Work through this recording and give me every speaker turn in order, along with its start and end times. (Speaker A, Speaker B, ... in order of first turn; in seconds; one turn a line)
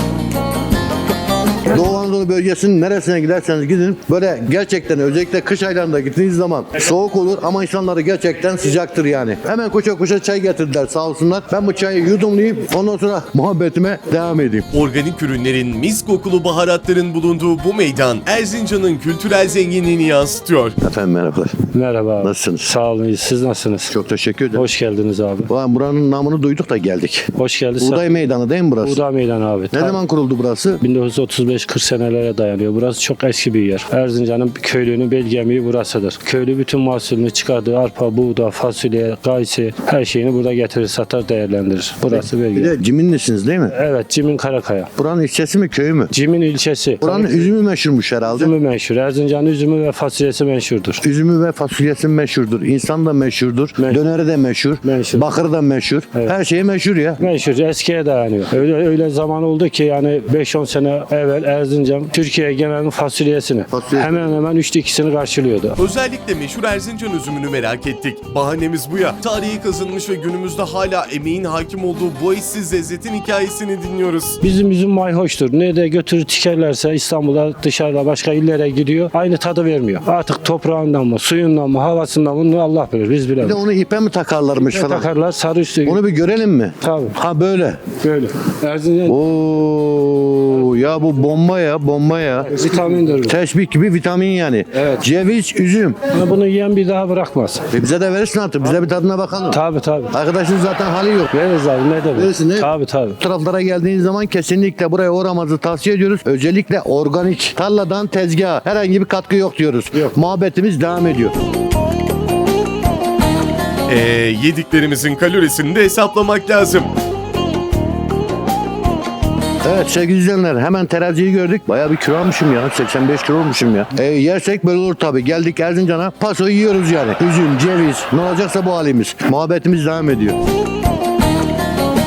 Speaker A: 1.7-14.7
Speaker B: 14.7-20.8
Speaker A: 20.8-21.6
Speaker C: 21.7-23.9
Speaker A: 22.2-22.7
Speaker A: 23.9-24.7
Speaker C: 24.5-25.5
Speaker A: 25.5-27.3
Speaker C: 27.4-28.1
Speaker A: 27.8-29.1
Speaker C: 28.8-30.0
Speaker A: 29.7-30.8
Speaker C: 30.8-42.7
Speaker A: 42.1-43.7
Speaker C: 43.7-44.9
Speaker A: 45.0-46.1
Speaker C: 46.1-47.5
Speaker A: 47.0-48.5
Speaker C: 48.3-51.0
Speaker A: 51.0-57.2
Speaker C: 54.8-55.3
Speaker C: 57.2-65.8
Speaker A: 63.7-64.4
Speaker B: 65.8-74.4
Speaker C: 74.4-83.6
Speaker A: 83.4-85.1
Speaker C: 84.6-86.0
Speaker A: 85.9-87.8
Speaker C: 86.8-87.2
Speaker C: 88.0-89.2
Speaker A: 89.1-92.6
Speaker C: 92.5-93.4
Speaker A: 93.2-96.0
Speaker C: 96.1-97.6
Speaker A: 97.7-99.6
Speaker C: 99.5-100.1
Speaker A: 100.1-101.3
Speaker C: 101.3-103.2
Speaker A: 102.1-111.3
Speaker B: 113.9-116.9
Speaker A: 119.6-130.4